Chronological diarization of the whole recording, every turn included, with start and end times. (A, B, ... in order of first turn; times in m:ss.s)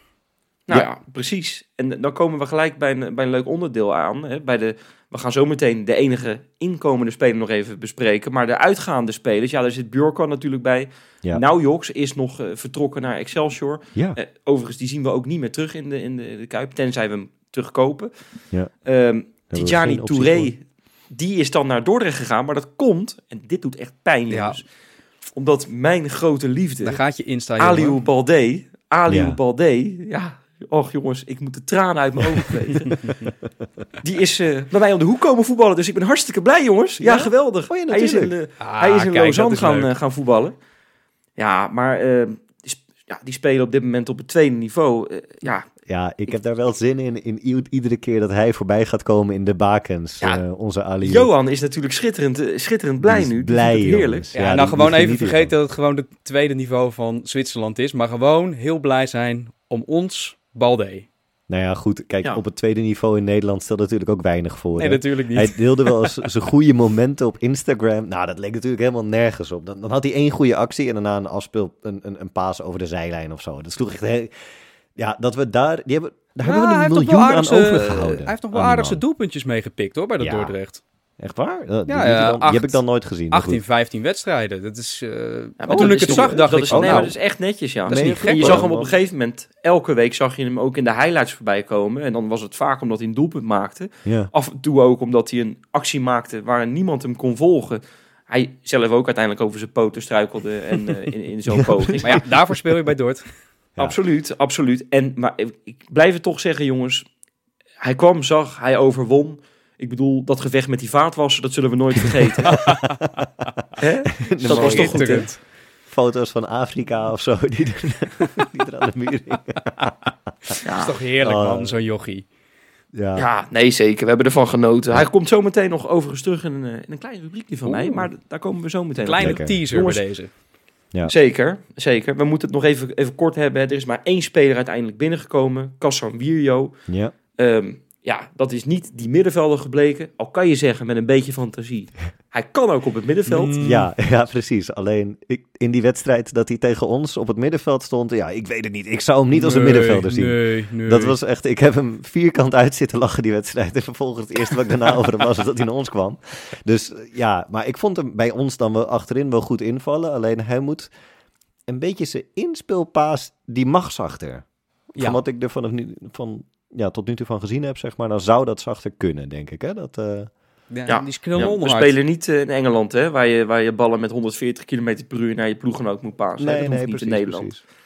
0:00.7-0:18.1 A
0:18.8-0:24.6 A
0:19.5-0:20.5 B
0:24.3-0:24.6 C
0:25.4-0:27.0 A
0:26.8-0:28.0 C
0:27.6-0:33.0 A
0:29.1-0:29.4 B
0:34.0-0:40.5 A
0:37.0-0:38.3 B
0:38.6-0:39.9 C
0:41.4-0:45.7 A
0:45.8-0:51.3 B
0:51.0-0:54.3 A
0:53.0-0:55.5 B
0:54.3-1:01.1 C
1:01.5-1:14.3 B
1:04.8-1:06.3 C
1:15.0-1:19.0 B
1:16.4-1:20.8 C
1:20.2-1:20.6 B
1:21.2-1:23.6 B
1:21.9-1:27.2 C
1:25.6-1:42.2 A
1:25.7-1:27.2 B
1:27.8-1:28.6 C
1:27.9-1:28.9 B
1:34.0-1:34.3 B
1:42.0-1:43.3 C
1:43.8-1:47.1 A
1:47.8-1:52.7 A
1:52.6-1:52.8 C
1:53.8-1:55.3 A
1:54.2-1:59.9 B
1:54.4-1:55.4 C
2:00.5-2:02.3 C
2:00.6-2:00.9 A
2:01.2-2:01.8 B
2:02.9-2:03.2 B
2:03.2-2:10.0 A
2:07.6-2:08.1 C
2:09.0-2:10.3 C
2:09.2-2:09.8 B
2:11.0-2:16.8 A
2:16.9-2:17.1 B
2:17.4-2:23.6 A
2:23.3-2:23.9 C
2:23.6-2:40.9 B
2:29.3-2:31.2 C
2:41.7-2:44.4 B
2:45.0-2:50.3 B
2:50.7-2:52.0 C
2:50.9-2:57.6 A
2:56.4-2:57.6 B